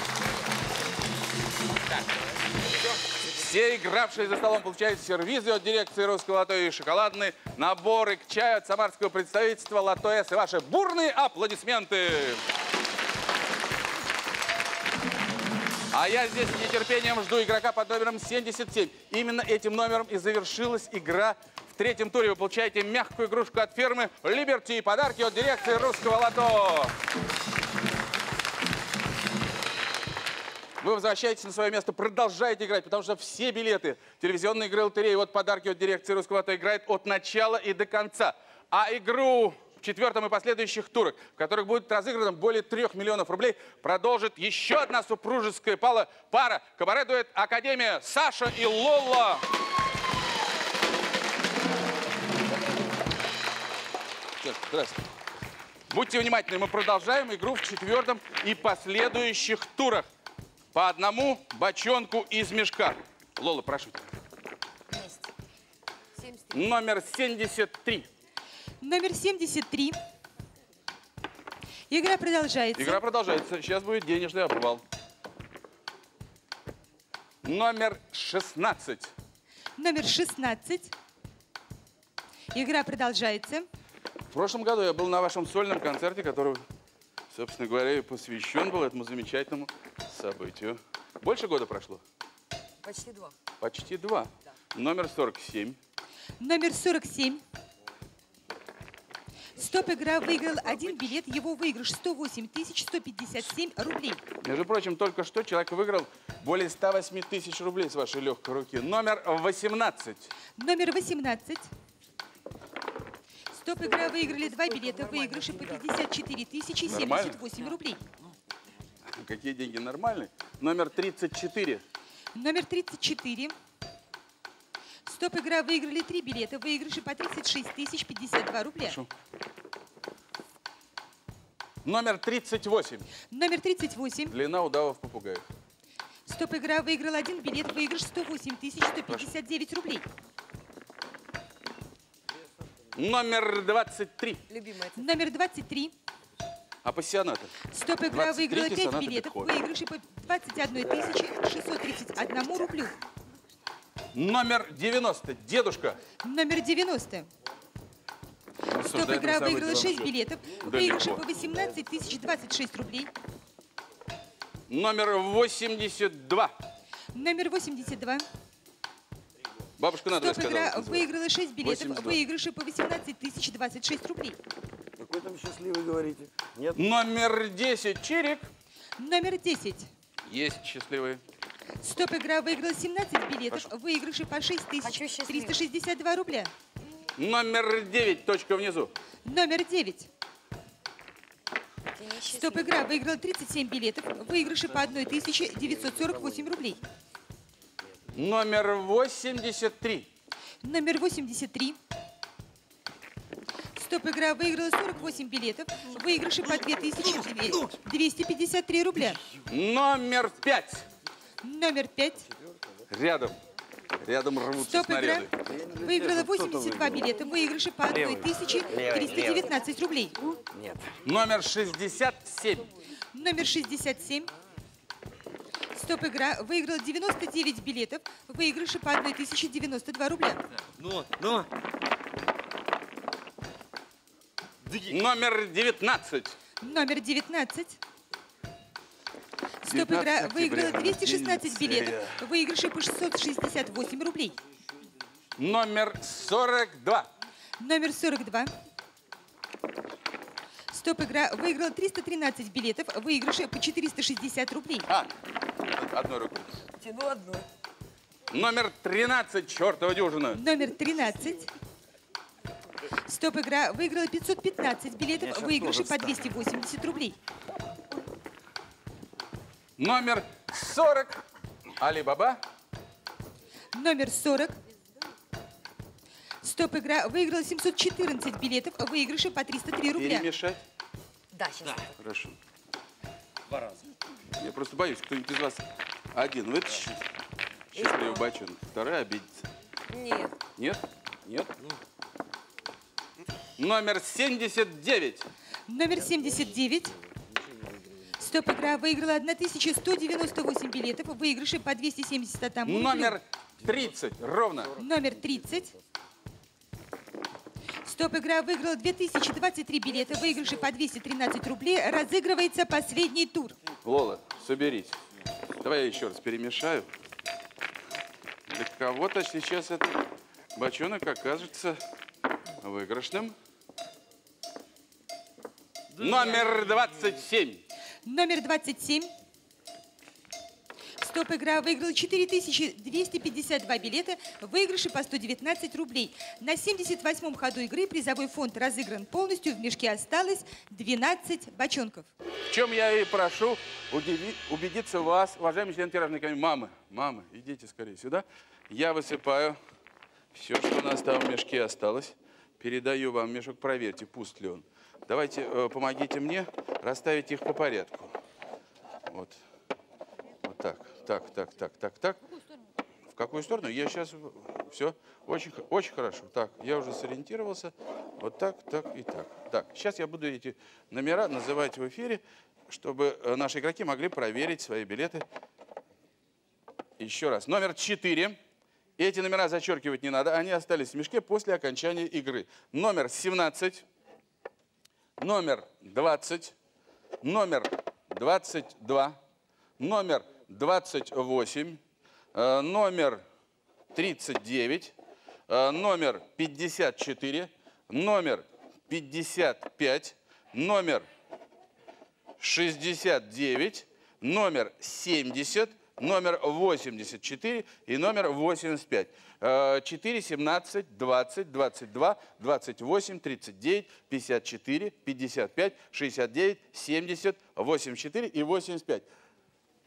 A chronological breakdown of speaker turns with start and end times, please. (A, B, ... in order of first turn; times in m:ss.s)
0:03.2-0:12.4 A
0:15.9-0:26.9 A
0:30.8-0:49.5 A
0:54.4-0:55.1 A
0:55.9-1:00.1 A
1:00.7-1:04.1 A
1:04.9-1:05.3 B
1:06.2-1:06.6 B
1:06.5-1:08.1 A
1:08.8-1:10.0 C
1:11.9-1:13.0 C
1:12.8-1:14.8 A
1:17.4-1:19.1 A
1:19.8-1:20.9 C
1:22.5-1:23.7 C
1:24.3-1:26.6 A
1:27.3-1:32.0 A
1:32.8-1:33.4 B
1:33.6-1:35.8 A
1:36.4-1:37.4 C
1:39.6-1:44.2 C
1:44.4-1:50.3 A
1:50.6-1:51.7 C
1:53.5-1:58.0 C
1:54.2-1:55.8 B
1:56.9-1:57.4 A
1:59.1-2:01.8 A
2:02.3-2:03.6 C
2:05.1-2:09.0 C
2:11.8-2:13.1 A
2:13.3-2:14.4 C
2:14.3-2:15.5 A
2:16.3-2:20.1 C
2:23.0-2:24.4 A
2:24.5-2:25.0 B
2:24.9-2:25.9 C
2:26.8-2:27.6 A
2:27.7-2:33.0 C
2:28.1-2:29.5 A
2:34.1-2:36.0 A
2:36.2-2:37.3 C
2:38.7-2:41.2 A
2:38.7-2:43.1 C
2:44.7-2:46.6 A
2:47.1-2:48.3 C
2:49.8-2:51.1 A
2:50.2-2:54.4 C
2:51.6-2:52.2 A
2:55.0-2:56.8 D
2:56.8-2:58.5 A
2:59.0-2:59.9 C
3:00.3-3:01.2 A
3:01.8-3:06.5 C
3:04.8-3:05.7 B
3:07.2-3:08.9 A
3:09.2-3:10.1 C
3:11.9-3:12.9 B
3:12.3-3:16.8 C
3:18.1-3:20.1 A
3:20.6-3:21.8 C
3:23.8-3:29.2 C
3:29.5-3:30.9 A
3:31.4-3:32.2 C
3:32.9-3:33.4 A
3:34.0-3:35.3 A
3:34.6-3:40.2 C
3:35.5-3:37.1 D
3:37.9-3:39.4 D
3:40.5-3:41.0 D
3:41.0-3:42.7 A
3:43.1-3:44.3 C
3:45.8-3:50.4 C
3:50.7-3:51.5 D
3:54.7-3:55.0 D
3:54.9-3:56.4 A
3:56.6-3:57.8 C
3:59.6-4:04.4 C
3:59.7-4:02.2 A
4:05.4-4:07.1 A
4:07.6-4:08.5 C
4:10.7-4:14.9 C
4:15.6-4:16.7 A
4:16.8-4:17.5 B
4:18.3-4:20.4 A
4:20.3-4:21.5 C
4:23.1-4:27.2 C
4:25.3-4:26.1 D
4:29.8-4:31.2 A
4:31.8-4:32.4 A
4:33.7-4:34.6 C
4:36.4-4:40.3 C
4:40.0-4:40.6 A
4:41.3-4:41.9 B
4:42.0-4:42.4 A
4:43.5-4:43.8 D
4:44.4-4:47.0 A
4:47.7-4:48.2 B
4:47.7-4:49.5 A
4:49.9-4:50.4 B
4:50.6-4:51.6 A
4:53.6-4:55.3 A
4:55.7-4:57.0 C
4:58.2-5:03.2 C
5:02.7-5:04.8 A
5:04.8-5:05.7 C
5:07.8-5:13.6 C
5:13.8-5:15.0 A
5:15.6-5:16.9 A
5:18.5-5:20.0 A
5:20.6-5:21.8 A
5:22.6-5:23.4 A
5:26.0-5:27.6 A
5:26.0-5:26.9 D
5:28.0-5:29.1 C
5:31.0-5:42.1 C
5:42.5-5:49.6 A
5:50.3-5:58.1 A
5:59.1-5:59.4 A
6:00.4-6:02.2 A
6:03.2-6:15.2 A
6:17.0-6:18.4 A
6:19.0-6:23.8 A
6:25.2-6:26.5 A
6:27.2-6:29.2 A
6:29.8-6:31.8 A
6:32.3-6:33.2 A
6:33.9-6:34.9 A
6:35.5-6:41.1 A
6:42.4-6:59.1 A